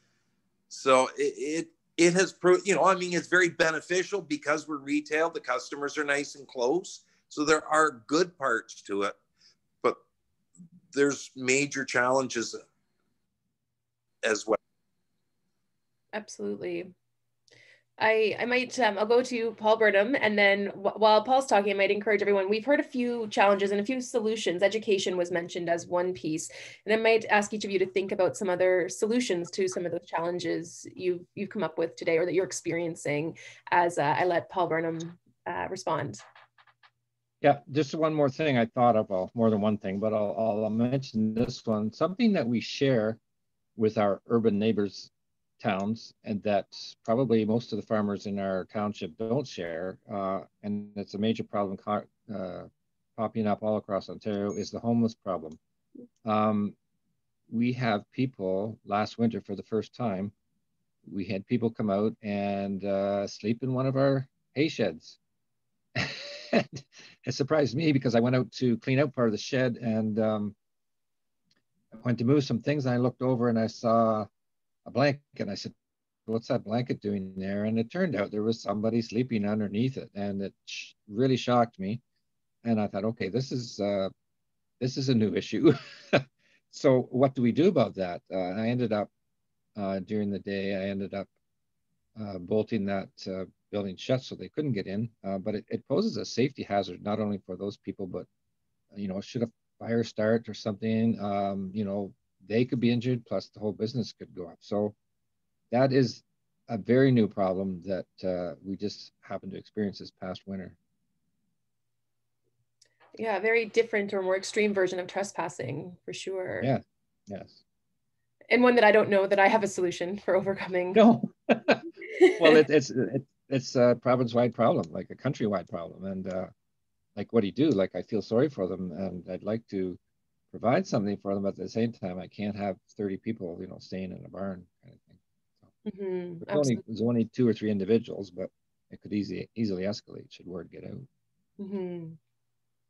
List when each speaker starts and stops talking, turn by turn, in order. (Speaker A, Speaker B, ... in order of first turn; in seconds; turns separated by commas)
Speaker A: 0.7-9.1, Speaker A: 10.9-12.6, Speaker A: 14.2-14.6, Speaker B: 16.1-16.9, Speaker B: 18.0-36.2, Speaker C: 37.4-43.2, Speaker C: 43.8-55.6, Speaker C: 56.2-56.8, Speaker C: 57.5-60.3, Speaker C: 61.1-65.2, Speaker C: 66.0-70.5, Speaker C: 72.0-74.3, Speaker C: 74.9-75.7, Speaker C: 76.3-82.0, Speaker C: 82.6-84.1, Speaker C: 84.8-89.1, Speaker C: 89.8-91.3, Speaker C: 92.2-98.3, Speaker C: 98.9-105.0, Speaker C: 105.7-110.8, Speaker B: 113.2-116.7, Speaker C: 116.6-117.6, Speaker B: 118.5-121.0, Speaker C: 120.9-121.8, Speaker B: 122.2-122.5, Speaker C: 122.4-126.5, Speaker C: 127.2-130.0, Speaker C: 130.5-135.2, Speaker B: 135.8-136.8, Speaker C: 136.4-141.1, Speaker B: 141.6-142.2